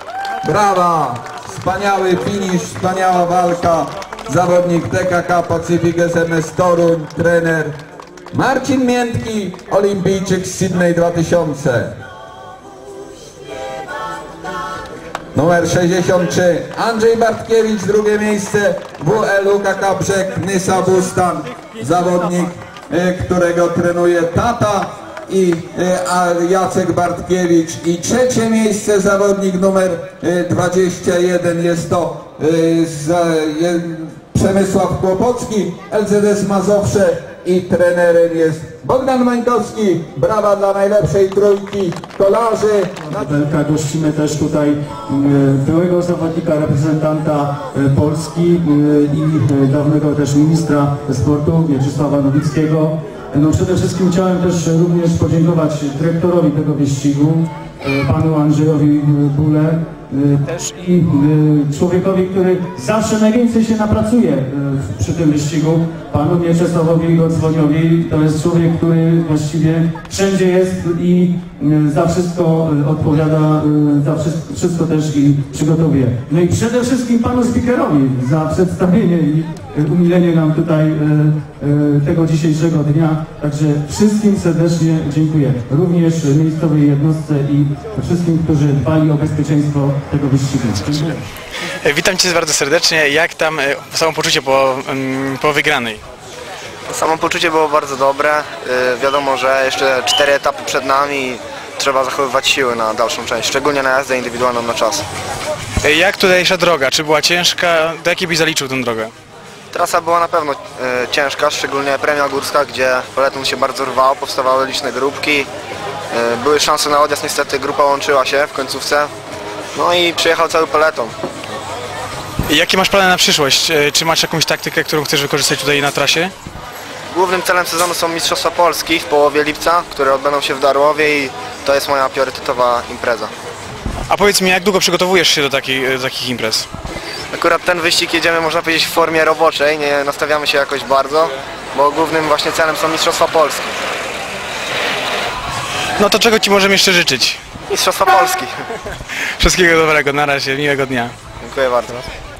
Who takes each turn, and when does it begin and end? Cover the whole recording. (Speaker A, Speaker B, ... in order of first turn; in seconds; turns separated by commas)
Speaker A: 0.4-7.8, Speaker A: 8.3-11.9, Speaker A: 15.3-43.3, Speaker B: 43.1-91.2, Speaker C: 91.8-96.0, Speaker D: 96.9-105.0, Speaker C: 105.8-109.1, Speaker D: 109.7-115.5, Speaker D: 116.1-119.1, Speaker D: 119.7-121.1, Speaker C: 122.5-126.3, Speaker D: 127.1-133.3, Speaker C: 134.1-136.7, Speaker D: 137.3-143.7, Speaker C: 146.0-147.4, Speaker D: 147.7-148.5, Speaker C: 149.4-151.1, Speaker D: 151.4-152.0